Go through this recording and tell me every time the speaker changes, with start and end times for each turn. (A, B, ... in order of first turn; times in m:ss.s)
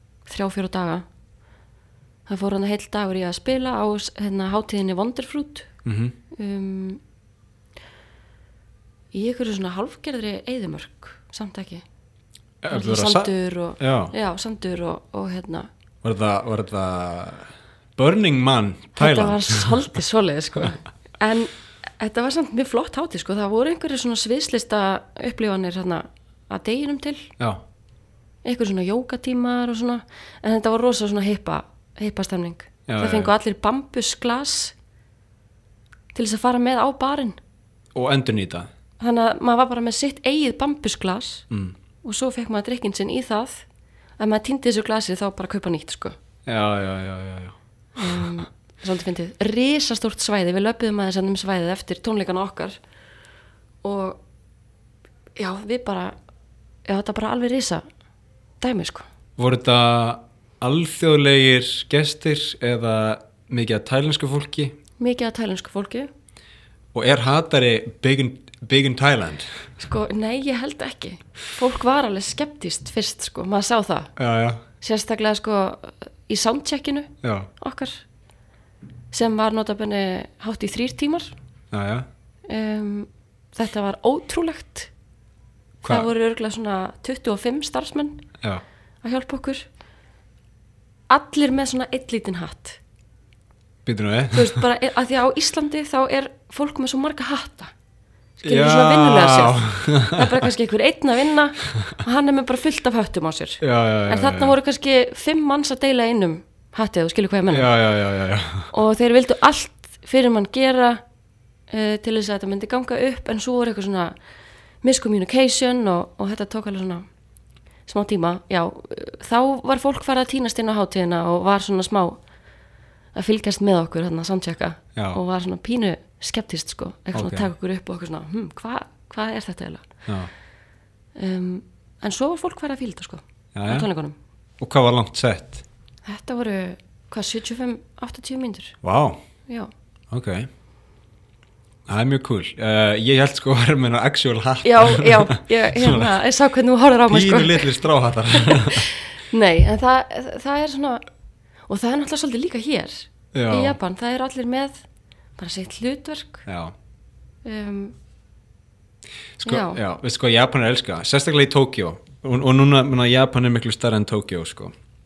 0:00.3-0:01.0 A
0:02.3-0:05.7 A
0:05.8-0:06.2 B
0:06.3-0:07.0 A
0:09.1-0:11.8 A
0:12.6-0:14.1 B
0:12.7-0:15.7 A
0:16.0-0:19.9 B
0:19.0-0:27.3 A
0:28.4-0:34.7 A
0:32.9-0:33.3 B
0:36.1-0:37.4 A
0:37.9-0:38.7 B
0:39.0-0:41.4 A
0:41.5-0:41.7 B
0:42.0-0:43.6 A
0:44.2-0:46.2 A
0:46.4-0:48.3 B
0:48.0-0:52.8 A
0:53.8-0:54.2 A
0:55.4-0:56.1 A
0:56.8-0:57.8 A
0:58.6-0:59.0 A
0:59.4-1:04.8 B
1:05.0-1:06.1 A
1:06.9-1:09.6 B
1:09.8-1:14.1 A
1:14.2-1:14.6 B
1:14.8-1:18.0 A
1:17.2-1:17.5 B
1:19.1-1:21.3 A
1:21.7-1:22.1 B
1:22.5-1:24.9 A
1:25.8-1:26.1 B
1:25.8-1:28.2 A
1:29.0-1:29.7 A
1:31.1-1:32.8 A
1:33.8-1:34.6 B
1:34.3-1:37.7 A
1:38.4-1:47.7 A
1:38.4-1:40.5 B
1:43.6-1:44.6 B
1:47.5-1:48.7 B
1:48.7-1:51.0 A
1:51.7-1:54.1 A
1:54.8-1:57.0 A
1:57.9-2:02.2 A
2:03.1-2:09.9 A
2:05.0-2:05.2 B
2:07.1-2:07.5 B
2:11.2-2:14.1 A
2:13.5-2:13.9 B
2:14.6-2:15.6 B
2:16.0-2:18.8 A
2:18.8-2:19.2 B
2:20.1-2:20.5 B
2:21.9-2:26.1 B
2:24.6-2:27.7 A
2:27.1-2:28.9 B
2:28.3-2:31.0 A
2:31.7-2:34.8 A
2:33.3-2:33.8 B
2:35.4-2:36.4 A
2:36.4-2:36.7 B
2:37.4-2:37.9 A
2:39.4-2:44.7 B
2:39.4-2:39.8 A